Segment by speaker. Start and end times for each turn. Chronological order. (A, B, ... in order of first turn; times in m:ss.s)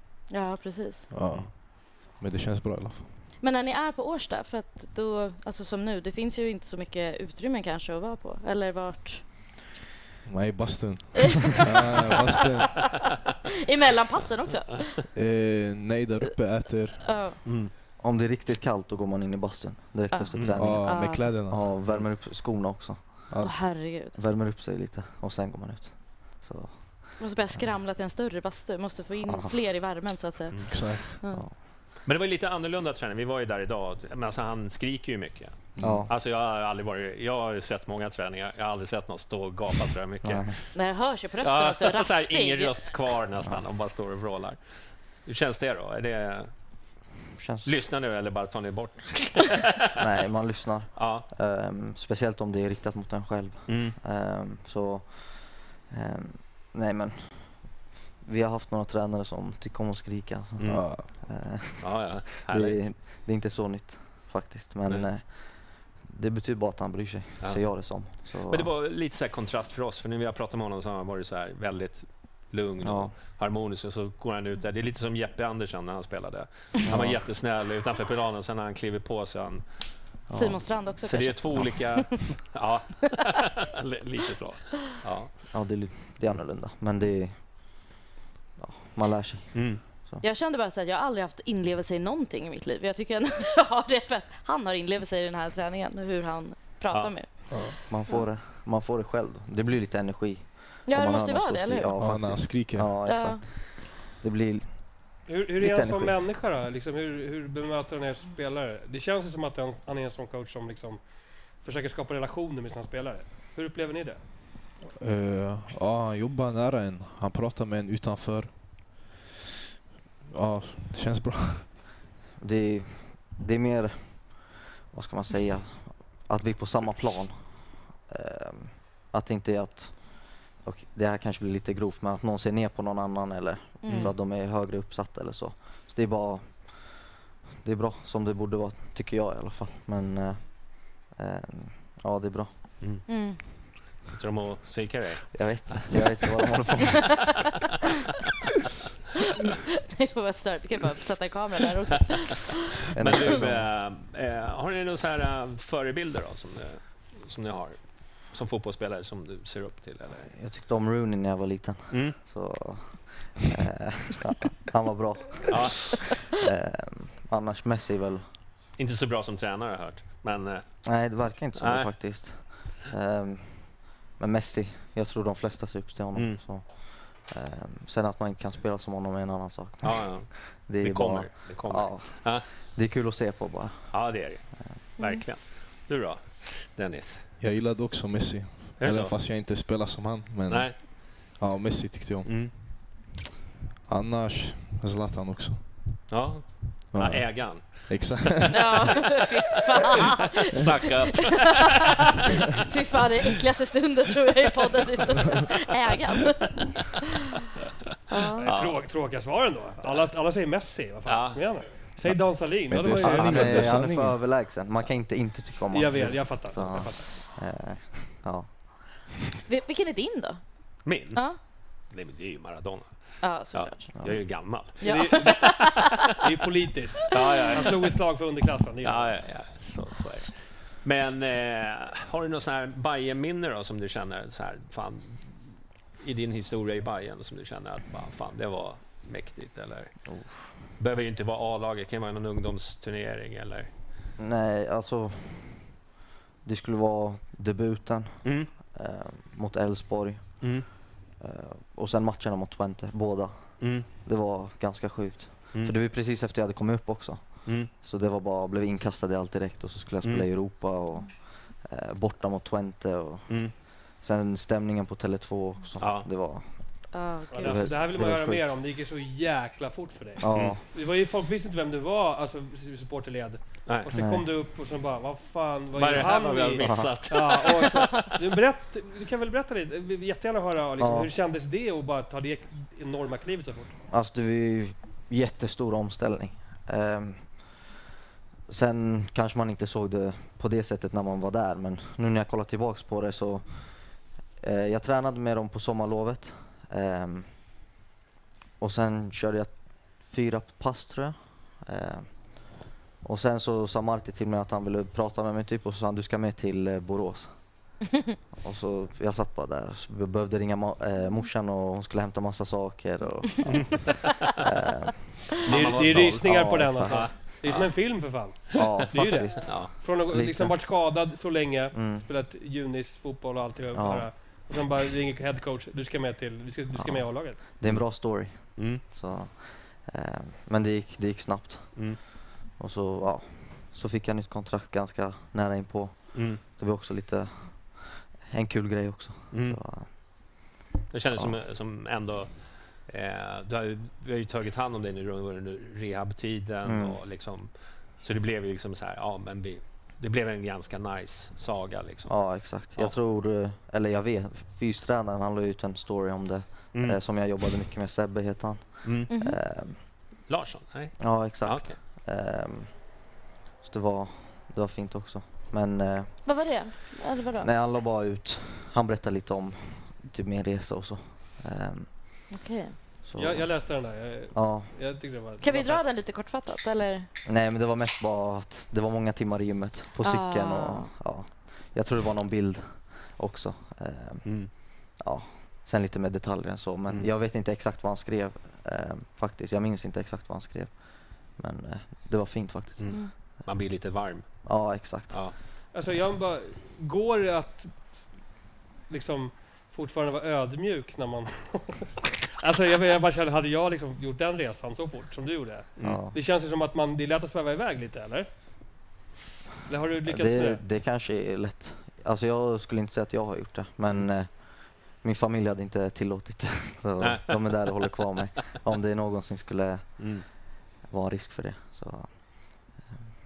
0:00.3-0:01.1 A
0:01.1-0:03.1 B
0:03.4-0:09.3 A
0:10.2-0:13.1 B
0:13.6-0:15.0 A
0:15.1-0:17.2 B
0:17.0-0:17.4 A
0:17.4-0:17.7 C
0:18.0-0:27.7 D
0:20.1-0:21.3 A
0:20.6-0:21.7 B
0:23.3-0:23.6 B
0:23.4-0:24.2 A
0:27.2-0:31.4 A
0:29.2-0:29.6 D
0:30.7-0:31.2 B
0:31.3-0:31.6 D
0:32.0-0:40.7 C
0:35.8-0:36.1 B
0:35.8-0:36.1 D
0:40.2-0:40.5 D
0:40.7-0:42.7 A
0:41.4-0:44.6 C
0:45.2-0:46.5 C
0:47.4-0:47.7 D
0:47.6-0:49.9 C
0:50.0-1:08.7 D
0:51.0-0:51.3 C
0:53.7-0:54.0 C
1:00.6-1:01.2 C
1:00.7-1:01.1 B
1:01.8-1:03.0 C
1:07.4-1:19.6 C
1:12.8-1:13.1 D
1:16.8-1:17.2 D
1:20.3-1:20.8 D
1:20.3-1:22.0 A
1:21.0-1:25.3 C
1:25.5-1:27.9 D
1:28.6-1:30.2 D
1:29.5-1:29.8 C
1:30.2-1:38.2 A
1:37.9-1:46.2 D
1:40.8-1:41.9 A
1:42.0-1:43.0 B
1:43.0-1:43.4 A
1:45.2-1:54.2 E
1:54.9-1:59.1 B
2:00.2-2:01.7 B
2:02.4-2:17.0 D
2:13.8-2:14.1 A
2:17.6-2:22.7 D
2:22.8-2:23.0 C
2:23.1-2:23.4 A
2:24.0-2:26.0 C
2:25.3-2:27.6 D
2:29.9-2:32.6 A
2:32.9-2:33.7 D
2:33.0-2:40.3 C
2:40.3-2:48.2 D
2:41.9-2:42.2 C
2:45.5-2:46.2 C
2:48.8-2:52.5 C
2:50.8-3:04.7 D
2:56.1-2:56.4 C
2:59.8-3:02.5 C
3:03.9-3:07.2 C
3:05.0-3:05.2 A
3:07.4-3:12.4 B
3:08.8-3:09.1 C
3:10.5-3:10.8 C
3:12.2-3:12.5 C
3:13.9-3:16.0 B
3:16.1-3:18.4 C
3:16.9-3:18.8 B
3:18.5-3:21.4 A
3:20.5-3:21.9 C
3:22.6-3:27.0 A
3:28.1-3:28.5 A
3:28.4-3:33.6 E
3:28.4-3:28.8 C
3:31.0-3:31.7 C
3:32.0-3:34.2 B
3:33.0-3:38.9 D
3:35.7-3:37.3 E
3:39.5-3:41.4 A
3:40.8-3:41.2 C
3:41.8-3:46.0 C
3:43.2-3:43.9 A
3:44.0-3:44.4 D
3:44.8-3:45.7 A
3:44.8-3:49.2 E
3:47.1-3:48.0 C
3:47.4-3:47.6 A
3:48.8-4:00.0 C
4:00.1-4:00.5 D
4:00.8-4:03.7 C
4:04.2-4:05.7 D
4:06.4-4:10.7 D
4:08.2-4:08.5 C
4:10.4-4:10.7 C
4:11.2-4:26.5 D
4:13.6-4:13.9 C
4:17.4-4:17.7 C
4:23.3-4:23.5 C
4:25.8-4:26.1 C
4:26.9-4:27.7 A
4:27.3-4:43.8 E
4:27.4-4:28.4 D
4:30.2-4:30.6 D
4:30.3-4:30.6 C
4:33.7-4:33.9 C
4:33.9-4:34.3 D
4:35.7-4:38.2 C
4:36.6-4:37.0 D
4:40.8-4:41.1 D
4:43.9-4:47.7 D
4:48.5-4:57.4 D
4:58.6-5:07.8 D
5:08.4-5:17.2 D
5:13.4-5:14.3 C
5:15.4-5:16.2 C
5:15.4-5:27.4 E
5:16.8-5:18.8 C
5:18.5-5:20.6 D
5:19.4-5:19.7 C
5:21.7-5:22.1 D
5:23.7-5:24.1 D
5:26.7-5:32.0 D
5:27.6-5:28.8 C
5:32.6-5:40.5 D
5:36.1-5:36.4 C
5:39.3-5:39.6 C
5:40.9-5:53.0 C
5:46.6-5:47.0 D
5:52.1-5:59.9 D
5:56.7-5:57.0 C
5:58.8-5:59.1 C
5:59.1-5:59.4 A
6:00.2-6:01.8 C
6:01.0-6:03.1 D
6:03.6-6:06.7 D
6:06.2-6:07.5 A
6:07.4-6:12.3 D
6:12.3-6:12.8 A
6:13.0-6:14.8 D
6:13.1-6:15.8 E
6:15.4-6:17.1 A
6:17.2-6:33.1 D
6:20.0-6:20.9 A
6:24.2-6:24.5 C
6:32.8-6:35.3 C
6:34.4-6:35.3 D
6:35.7-6:38.1 E
6:38.9-6:48.3 E
6:45.8-6:46.2 D
6:49.7-6:50.6 E
6:50.0-7:03.0 D
6:57.0-6:58.0 C
7:00.0-7:00.2 C